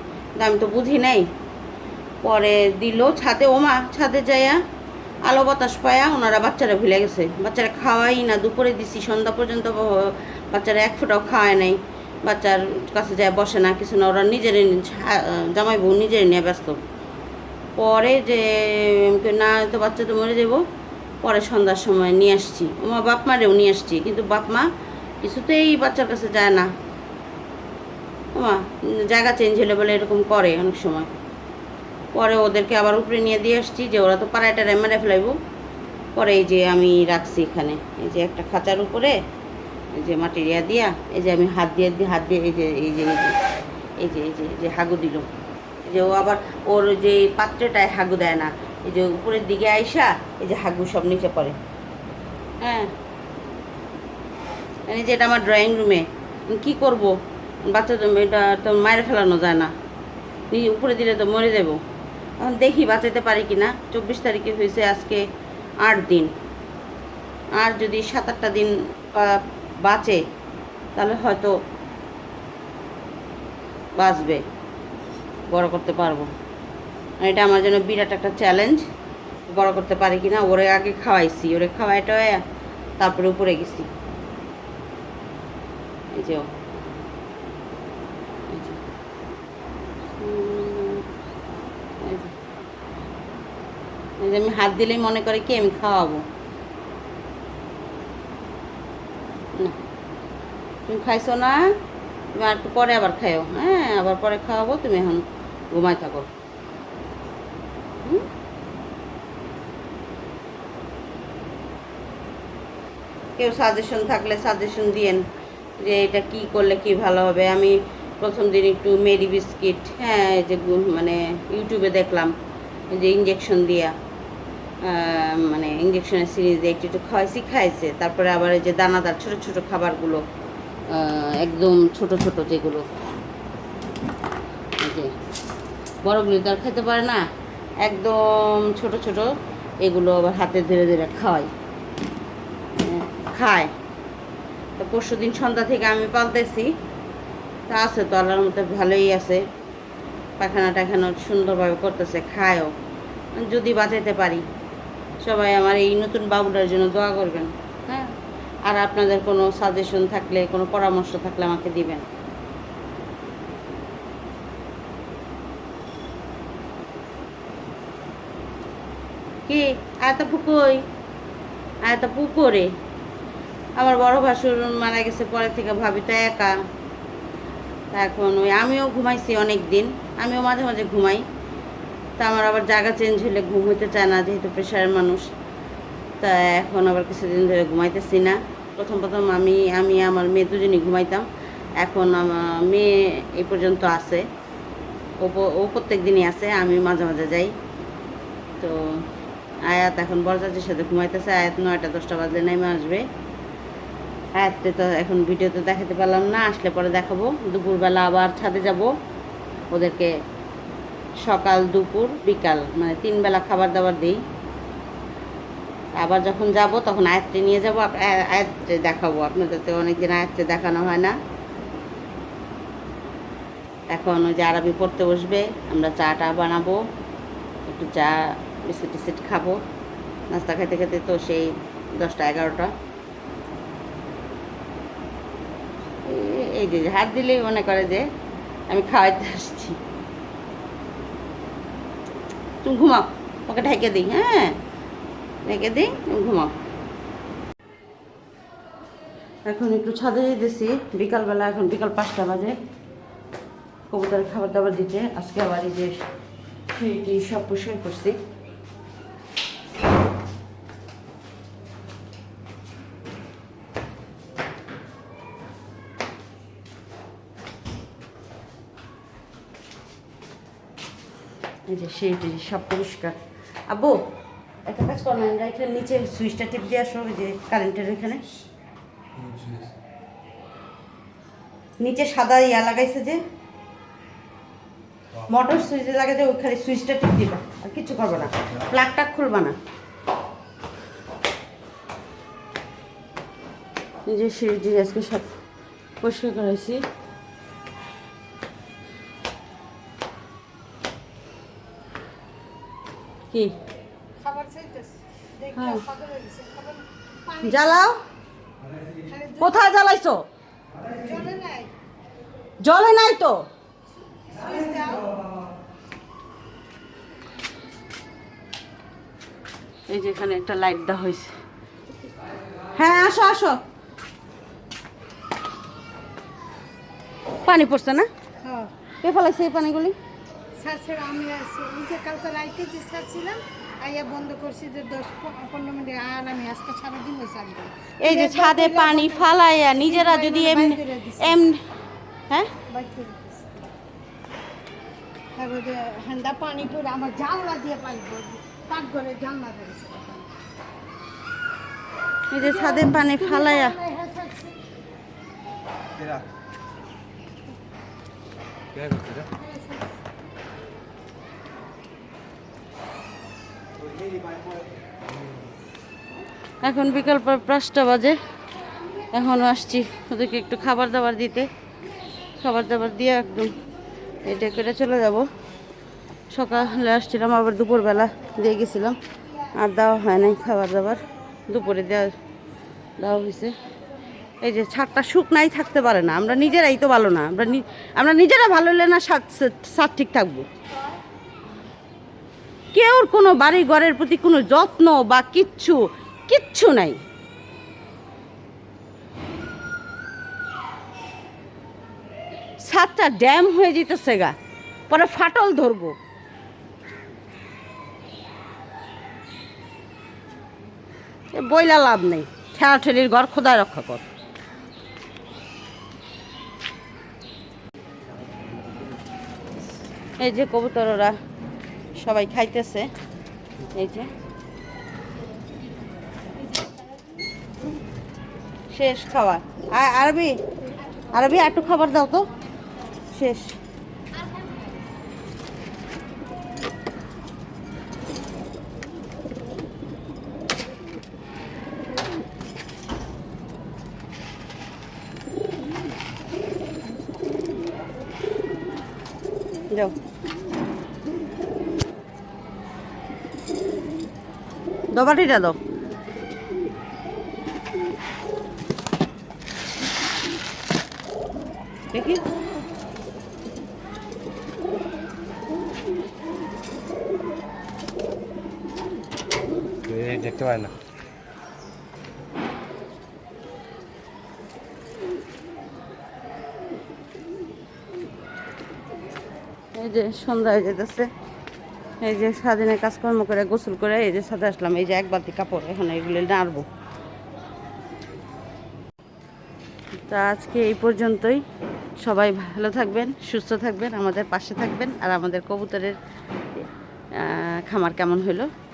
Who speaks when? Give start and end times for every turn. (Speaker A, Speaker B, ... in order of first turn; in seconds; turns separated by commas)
Speaker A: 0.4-1.3, Speaker A: 2.2-4.6, Speaker A: 5.3-16.8, Speaker A: 17.8-20.6, Speaker A: 21.2-24.7, Speaker A: 25.2-26.7, Speaker A: 28.3-31.1, Speaker A: 32.1-35.3, Speaker A: 36.1-39.1, Speaker A: 40.0-43.4, Speaker A: 44.0-45.3, Speaker A: 45.9-51.6, Speaker A: 52.6-52.9, Speaker A: 54.9-57.1, Speaker A: 57.7-59.7, Speaker A: 60.5-61.8, Speaker A: 62.4-65.2, Speaker A: 65.8-66.3, Speaker A: 67.6-70.2, Speaker A: 71.0-71.5, Speaker A: 74.0-74.4, Speaker A: 75.5-76.3, Speaker A: 77.2-78.8, Speaker A: 79.5-82.4, Speaker A: 83.0-83.9, Speaker A: 86.1-86.5, Speaker A: 88.5-88.8, Speaker A: 90.2-91.0, Speaker A: 92.0-92.3, Speaker A: 94.2-96.2, Speaker A: 100.8-101.7, Speaker A: 102.3-106.3, Speaker A: 113.4-115.2, Speaker A: 115.8-122.3, Speaker A: 122.9-123.9, Speaker A: 124.8-130.2, Speaker A: 130.9-132.8, Speaker A: 134.8-135.1, Speaker A: 136.0-137.2, Speaker A: 137.8-141.5, Speaker A: 142.8-143.7, Speaker A: 144.8-146.7, Speaker A: 147.7-149.4, Speaker A: 150.4-152.7, Speaker A: 153.3-154.4, Speaker A: 155.2-158.1, Speaker A: 158.7-162.1, Speaker A: 169.5-170.8, Speaker A: 171.8-172.7, Speaker A: 173.8-176.6, Speaker A: 177.9-181.2, Speaker A: 182.2-185.2, Speaker A: 186.2-191.3, Speaker A: 191.8-194.2, Speaker A: 195.2-197.5, Speaker A: 198.6-199.0, Speaker A: 199.7-203.1, Speaker A: 204.4-208.9, Speaker A: 209.7-210.1, Speaker A: 211.2-214.2, Speaker A: 215.9-221.2, Speaker A: 223.9-226.8, Speaker A: 227.7-229.6, Speaker A: 230.3-232.7, Speaker A: 236.0-238.1, Speaker A: 238.7-239.8, Speaker A: 242.6-244.6, Speaker A: 245.4-246.5, Speaker A: 249.5-252.6, Speaker A: 253.9-256.0, Speaker A: 256.7-258.2, Speaker A: 271.7-274.0, Speaker A: 274.6-278.2, Speaker B: 279.1-279.8, Speaker A: 281.8-283.2, Speaker A: 285.3-289.6, Speaker A: 294.1-295.3, Speaker A: 296.0-296.8, Speaker C: 304.2-307.8, Speaker A: 305.5-305.8, Speaker A: 307.4-308.0, Speaker C: 309.0-309.8, Speaker A: 309.4-310.3, Speaker C: 310.9-311.7, Speaker A: 312.6-313.5, Speaker C: 314.2-315.2, Speaker A: 319.9-321.3, Speaker A: 322.7-323.6, Speaker A: 327.4-328.1, Speaker C: 328.4-328.7, Speaker A: 329.0-329.9, Speaker C: 330.6-339.3, Speaker A: 338.0-341.6, Speaker C: 339.8-341.4, Speaker C: 342.7-343.6, Speaker C: 345.4-350.3, Speaker A: 352.3-353.8, Speaker C: 352.4-354.6, Speaker B: 358.7-359.3, Speaker C: 359.4-359.9, Speaker A: 366.6-368.2, Speaker A: 369.1-371.5, Speaker A: 372.4-373.6, Speaker A: 374.2-375.3, Speaker A: 376.3-379.0, Speaker A: 379.5-382.1, Speaker A: 383.0-383.5, Speaker A: 384.4-390.5, Speaker A: 392.7-397.0, Speaker A: 402.6-404.3, Speaker A: 404.9-405.9, Speaker A: 411.3-414.1, Speaker A: 420.2-421.1, Speaker A: 422.0-422.9, Speaker A: 423.7-424.1, Speaker A: 428.7-430.4, Speaker A: 431.1-432.3, Speaker A: 433.1-433.6, Speaker A: 454.9-455.6, Speaker A: 461.9-462.2, Speaker B: 469.8-470.7, Speaker A: 479.7-481.1, Speaker A: 482.0-486.7, Speaker A: 490.1-491.4, Speaker A: 492.0-496.0, Speaker A: 497.1-498.5